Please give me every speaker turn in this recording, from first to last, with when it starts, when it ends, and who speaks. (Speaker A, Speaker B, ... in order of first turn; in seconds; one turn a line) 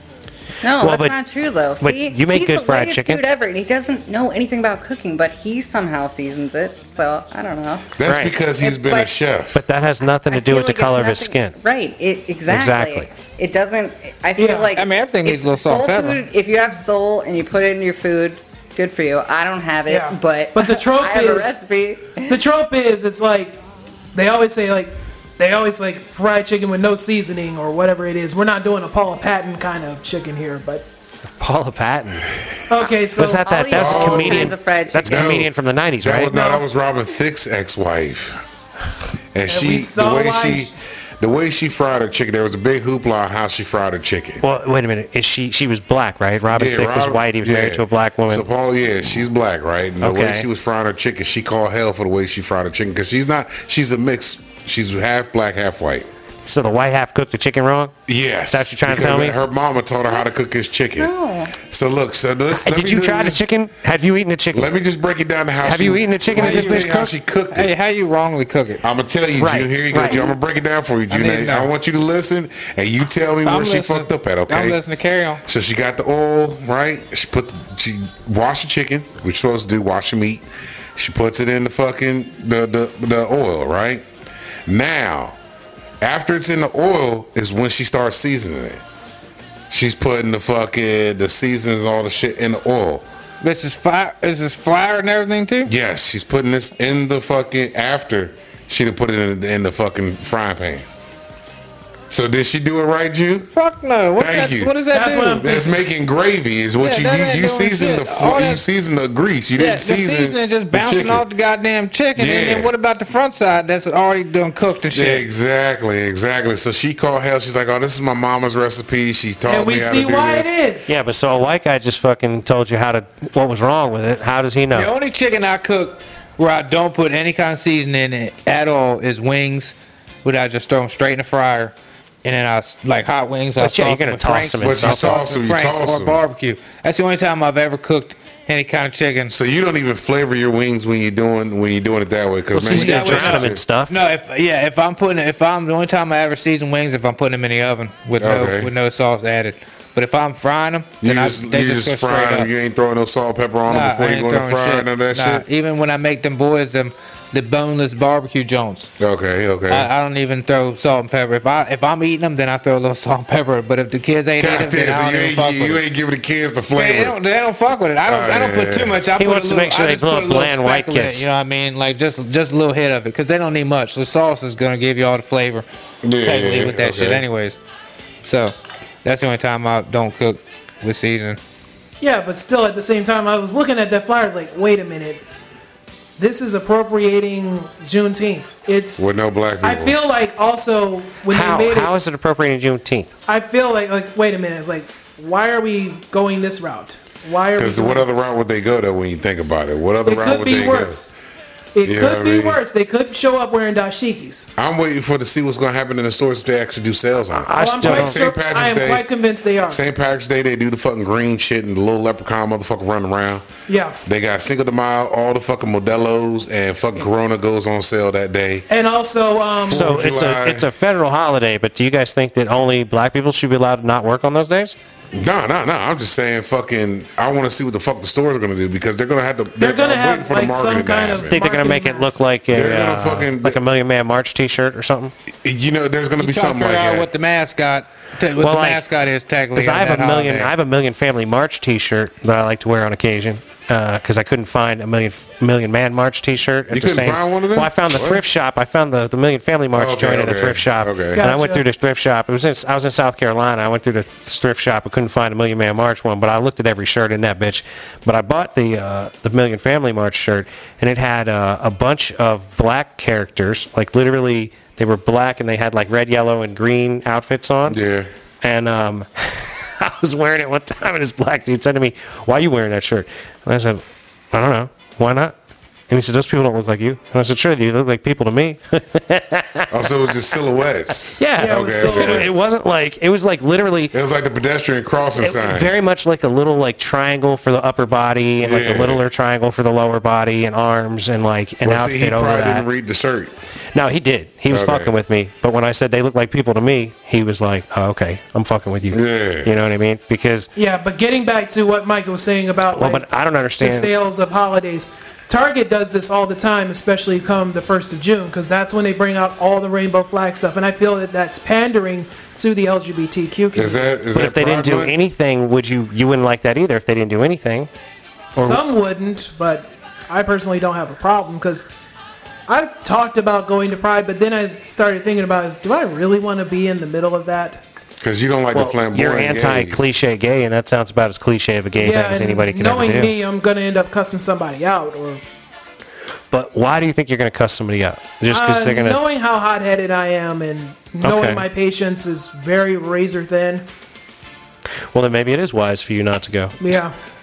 Speaker A: 0.6-7.9
Speaker B: 0.8-1.2
Speaker B: 1.8-3.2
Speaker C: 8.0-9.6
Speaker B: 8.0-8.3
Speaker A: 8.6-9.1
Speaker B: 9.5-11.6
Speaker A: 10.1-22.4
Speaker B: 12.5-13.1
Speaker D: 14.4-14.7
Speaker E: 14.7-16.2
Speaker D: 19.9-21.6
Speaker D: 22.3-23.6
Speaker D: 24.1-30.8
Speaker B: 31.4-32.3
Speaker D: 32.7-33.5
Speaker B: 32.8-36.3
Speaker A: 33.5-35.3
Speaker C: 33.7-38.4
Speaker D: 36.3-36.6
Speaker C: 39.3-44.4
Speaker D: 39.5-40.7
Speaker B: 44.4-48.5
Speaker C: 46.5-56.1
Speaker B: 50.0-50.5
Speaker B: 56.5-57.9
Speaker C: 58.0-63.4
Speaker B: 58.5-59.4
Speaker A: 61.0-61.5
Speaker B: 62.5-64.7
Speaker C: 64.5-67.7
Speaker B: 65.6-67.1
Speaker E: 66.3-67.0
Speaker E: 67.5-68.8
Speaker C: 68.8-74.8
Speaker B: 69.3-70.2
Speaker A: 69.9-70.3
Speaker E: 71.1-71.7
Speaker E: 73.4-75.4
Speaker C: 75.4-80.4
Speaker C: 81.0-84.0
Speaker C: 84.7-85.3
Speaker C: 86.0-88.8
Speaker C: 89.7-93.0
Speaker E: 93.4-95.7
Speaker C: 95.7-100.8
Speaker C: 102.1-103.5
Speaker E: 103.5-105.6
Speaker C: 104.2-104.7
Speaker D: 104.9-105.8
Speaker C: 105.4-111.2
Speaker E: 106.8-108.6
Speaker E: 109.6-115.2
Speaker C: 112.2-112.7
Speaker C: 114.9-120.5
Speaker D: 119.5-121.0
Speaker B: 120.9-124.9
Speaker E: 124.7-139.3
Speaker B: 133.6-135.3
Speaker C: 134.6-136.2
Speaker C: 139.3-143.6
Speaker B: 142.5-143.9
Speaker E: 142.7-152.5
Speaker C: 148.2-148.7
Speaker C: 151.0-155.4
Speaker E: 153.7-158.9
Speaker C: 159.0-159.9
Speaker E: 159.7-165.8
Speaker C: 164.4-167.2
Speaker E: 166.7-175.7
Speaker C: 168.1-169.1
Speaker B: 169.1-171.2
Speaker C: 176.0-177.2
Speaker E: 176.2-177.6
Speaker E: 178.2-181.4
Speaker D: 182.0-185.2
Speaker D: 186.2-189.1
Speaker C: 189.0-190.0
Speaker D: 189.6-191.9
Speaker B: 191.3-193.1
Speaker D: 193.3-198.2
Speaker C: 197.6-201.0
Speaker D: 200.1-201.2
Speaker D: 201.7-204.5
Speaker C: 201.8-202.6
Speaker C: 204.6-209.0
Speaker B: 207.3-208.2
Speaker D: 207.5-209.8
Speaker C: 209.7-213.4
Speaker D: 213.7-214.0
Speaker C: 214.0-218.7
Speaker D: 218.7-219.8
Speaker C: 219.6-220.7
Speaker B: 219.7-224.7
Speaker C: 225.1-231.4
Speaker D: 229.6-232.2
Speaker B: 231.2-235.1
Speaker C: 232.5-233.6
Speaker C: 235.4-237.1
Speaker E: 236.2-240.5
Speaker B: 238.4-238.8
Speaker B: 239.5-267.8
Speaker C: 246.7-248.2
Speaker C: 249.7-251.2
Speaker D: 251.1-251.6
Speaker C: 267.7-268.1
Speaker B: 268.4-275.3
Speaker B: 275.9-279.9
Speaker C: 279.7-282.3
Speaker B: 281.2-283.9
Speaker D: 281.4-282.4
Speaker C: 283.9-285.7
Speaker B: 285.1-292.6
Speaker C: 288.4-289.0
Speaker C: 291.6-293.3
Speaker B: 293.7-300.5
Speaker C: 294.5-294.9
Speaker C: 298.9-299.5
Speaker D: 300.6-303.0
Speaker B: 302.7-303.9
Speaker D: 303.6-313.9
Speaker C: 313.5-314.9
Speaker B: 314.1-317.7
Speaker B: 318.4-318.6
Speaker D: 318.4-321.7
Speaker D: 322.5-327.6
Speaker C: 328.0-329.9
Speaker B: 328.5-333.1
Speaker D: 331.8-335.2
Speaker B: 336.3-339.0
Speaker D: 338.3-343.6
Speaker B: 341.0-341.4
Speaker B: 344.9-346.6
Speaker D: 346.6-346.9